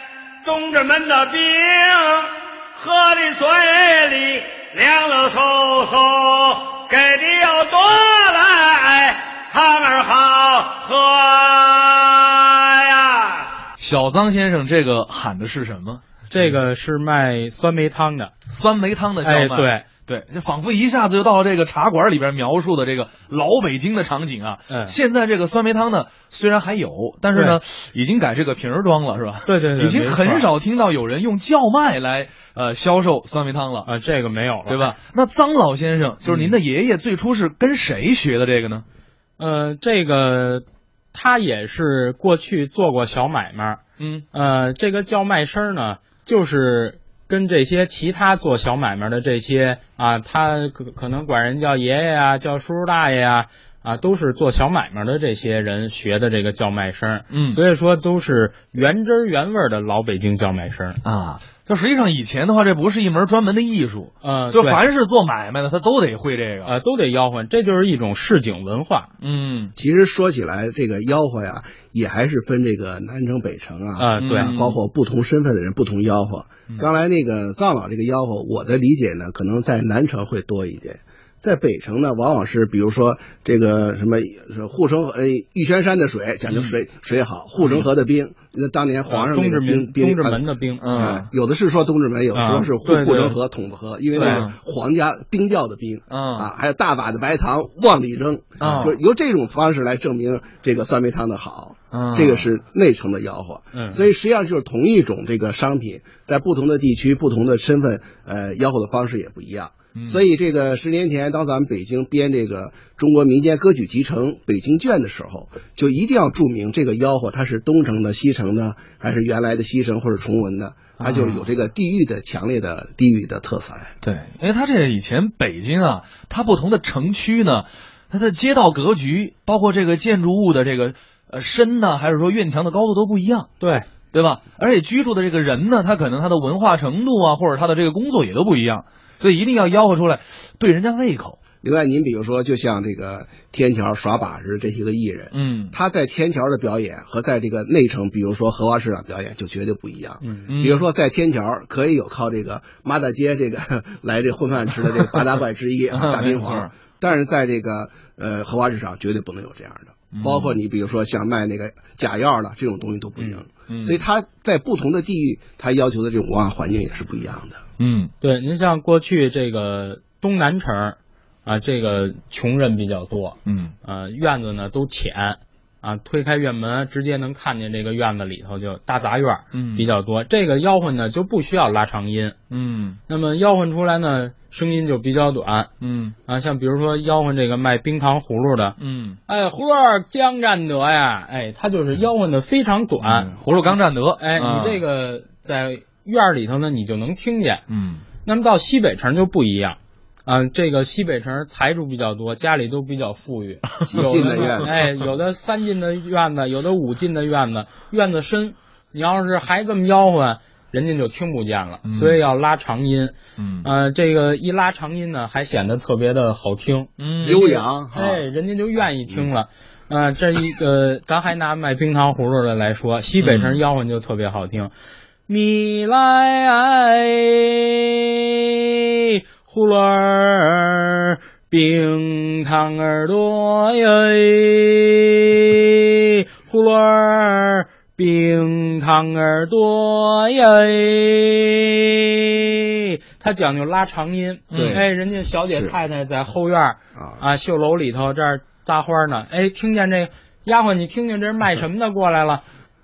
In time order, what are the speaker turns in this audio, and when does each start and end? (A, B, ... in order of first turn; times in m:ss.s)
0:00.4-0:13.5 A
0:13.8-0:16.6 B
0:16.3-0:18.3 C
0:18.5-0:33.9 B
0:19.2-0:19.8 C
0:24.7-0:24.9 C
0:29.4-0:30.5 C
0:33.8-0:35.0 C
0:34.7-0:38.8 B
0:36.2-0:36.5 C
0:39.4-0:43.8 C
0:44.0-0:44.2 B
0:44.3-1:01.0 C
0:57.3-0:57.6 B
1:01.0-1:06.7 B
1:04.2-1:04.8 C
1:06.6-1:09.1 C
1:09.2-1:09.7 B
1:09.8-1:30.4 D
1:14.0-1:14.6 C
1:14.2-1:14.8 B
1:27.6-1:27.8 B
1:29.1-1:31.1 C
1:30.8-1:31.3 B
1:30.9-2:03.9 D
1:32.3-1:33.4 C
1:34.2-1:34.4 C
1:34.2-1:34.5 B
1:36.1-1:36.5 B
1:38.6-1:39.0 B
1:41.9-1:42.5 B
1:43.7-1:44.0 C
1:49.9-1:50.2 B
2:01.0-2:01.4 B
2:04.0-2:13.5 B
2:13.6-2:13.9 C
2:14.1-2:21.4 B
2:21.6-2:47.6 D
2:25.3-2:25.8 B
2:30.2-2:30.5 C
2:30.5-2:30.8 B
2:35.9-2:36.7 B
2:40.1-2:40.6 B
2:43.7-2:44.0 B
2:47.8-2:48.1 B
2:48.2-3:02.4 C
2:53.4-2:53.7 B
2:59.5-2:59.9 B
3:02.5-3:03.0 B
3:03.1-3:05.7 C
3:05.8-3:06.1 B
3:06.2-3:08.8 C
3:08.8-3:09.2 B
3:09.3-3:13.4 C
3:13.0-3:14.8 B
3:14.2-3:17.6 C
3:17.7-3:18.0 B
3:18.2-3:44.7 C
3:23.9-3:24.7 D
3:31.8-3:32.2 B
3:33.4-3:33.7 B
3:37.0-3:37.4 B
3:37.2-3:38.2 D
3:43.2-3:43.6 B
3:45.3-4:12.4 C
4:04.5-4:04.8 B
4:04.5-4:04.8 D
4:05.5-4:05.8 D
4:07.0-4:07.2 D